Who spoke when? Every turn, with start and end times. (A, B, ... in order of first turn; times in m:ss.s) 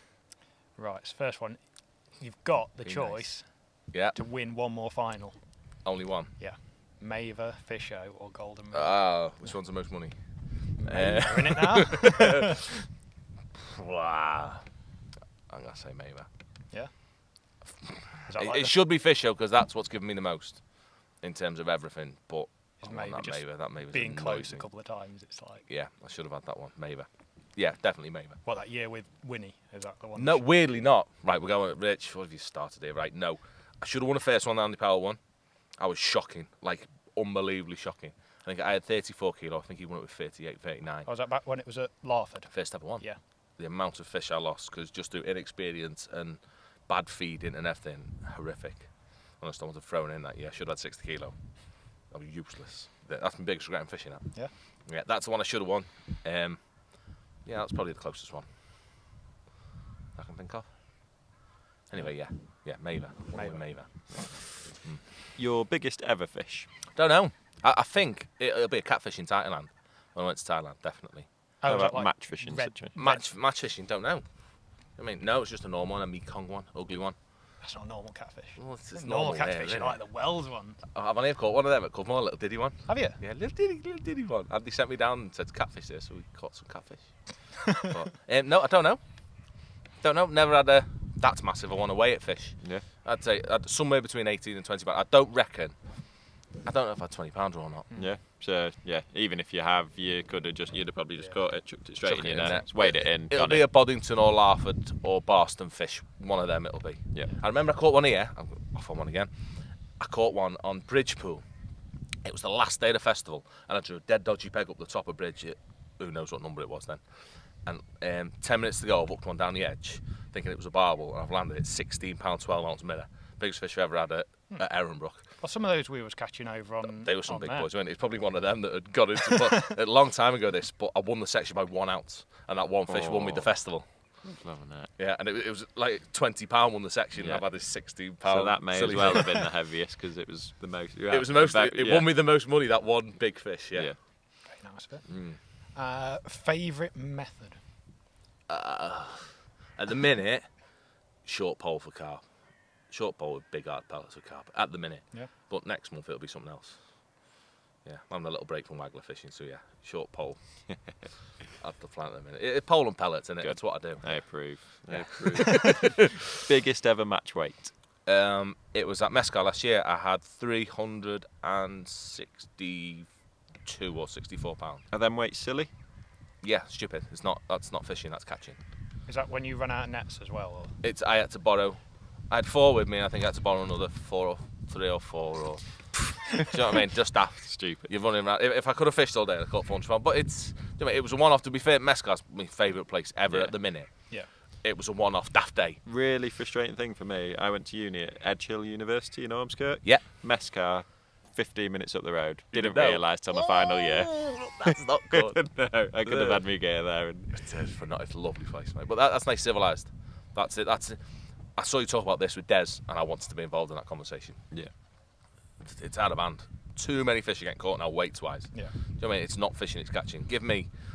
0:00.8-0:05.8 A
0:02.8-0:04.2 B
0:05.8-0:06.4 B
0:06.4-0:09.5 A
0:08.7-0:12.4 B
0:10.8-0:12.6 A
0:13.7-0:14.7 B
0:15.5-0:16.3 B
0:16.7-0:17.5 A
0:17.7-0:24.9 B
0:18.3-0:18.8 A
0:22.8-0:25.7 A
0:25.7-0:28.4 B
0:28.4-0:30.5 A
0:30.2-0:41.1 B
0:41.0-0:43.2 A
0:42.5-0:58.5 B
1:00.2-1:01.3 B
1:01.9-1:05.1 B
1:02.0-1:04.4 A
1:05.4-1:06.7 C
1:07.0-1:11.3 B
1:11.6-1:13.4 A
1:11.7-1:13.0 C
1:13.0-1:17.2 B
1:17.6-1:20.8 A
1:18.6-1:20.1 B
1:20.9-1:37.9 B
1:22.9-1:23.2 A
1:38.0-1:43.7 C
1:41.2-1:41.4 A
1:42.0-1:51.4 B
1:52.2-2:05.3 B
2:04.5-2:07.7 A
2:06.8-2:14.3 B
2:12.9-2:14.9 C
2:15.0-2:19.5 B
2:17.2-2:22.1 C
2:21.1-2:24.1 B
2:24.4-2:27.6 A
2:25.1-2:25.4 B
2:28.5-2:45.9 B
2:43.4-2:47.7 C
2:48.0-2:54.9 B
2:54.9-2:55.7 C
2:56.4-2:58.6 B
2:59.1-3:00.8 A
3:00.8-3:15.8 B
3:07.5-3:07.9 C
3:13.3-3:13.6 C
3:15.8-3:27.4 C
3:22.5-3:26.6 B
3:27.3-3:34.5 B
3:35.6-3:40.7 B